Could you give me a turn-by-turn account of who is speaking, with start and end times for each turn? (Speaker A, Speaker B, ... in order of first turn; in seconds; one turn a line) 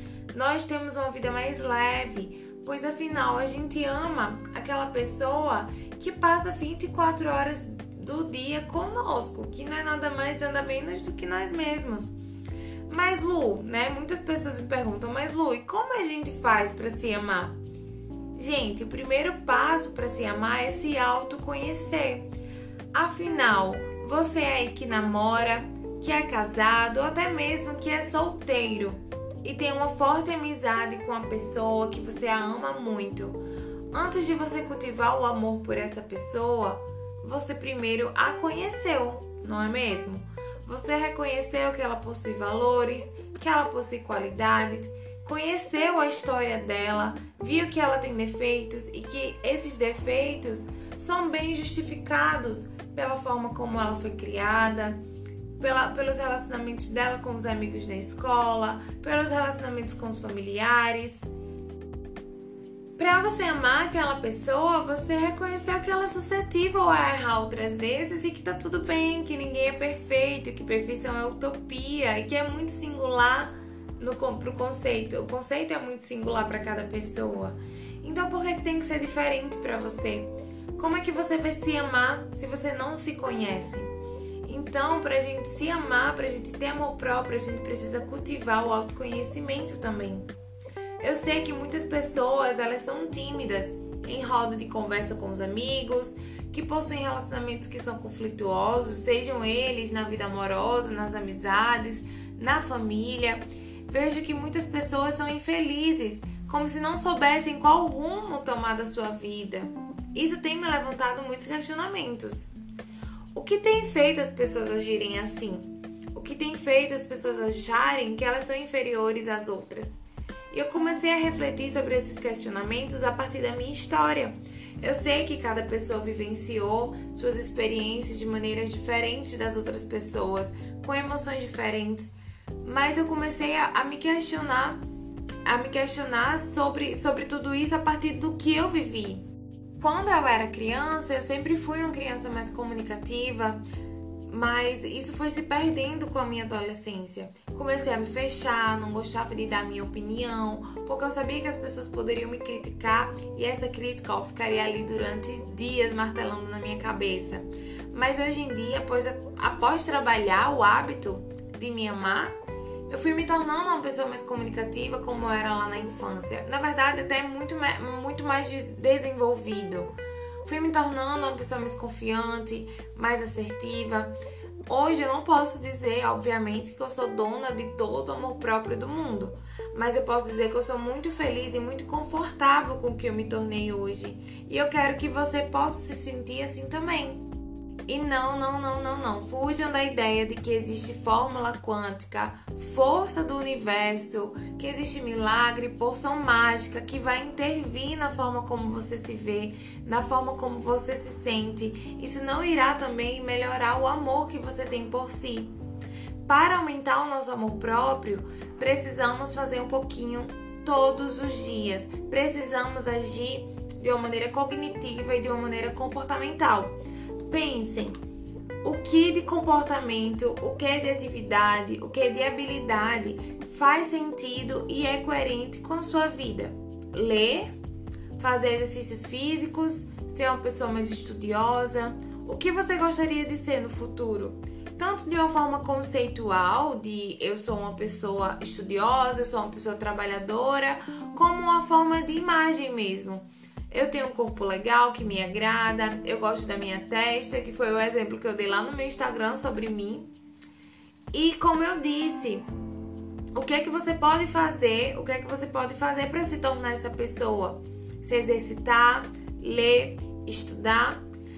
Speaker A: 0.3-12.2
Speaker A: 12.9-17.6
Speaker A: 18.4-22.3
Speaker A: 22.9-33.4
Speaker A: 33.9-55.0
Speaker A: 55.6-61.3
Speaker A: 63.0-83.9
Speaker A: 84.5-90.3
Speaker A: 91.0-112.5
Speaker A: 113.3-120.0
Speaker A: 120.5-134.8
Speaker A: 135.4-139.2
Speaker A: 139.8-143.6
Speaker A: 144.3-162.3
Speaker A: 162.9-169.9
Speaker A: 170.4-174.1
Speaker A: 174.7-187.2
Speaker A: 187.9-205.5
Speaker A: 206.2-218.0
Speaker A: 218.6-227.5
Speaker A: 228.2-250.1
Speaker A: 251.1-252.5
Speaker A: 253.3-261.0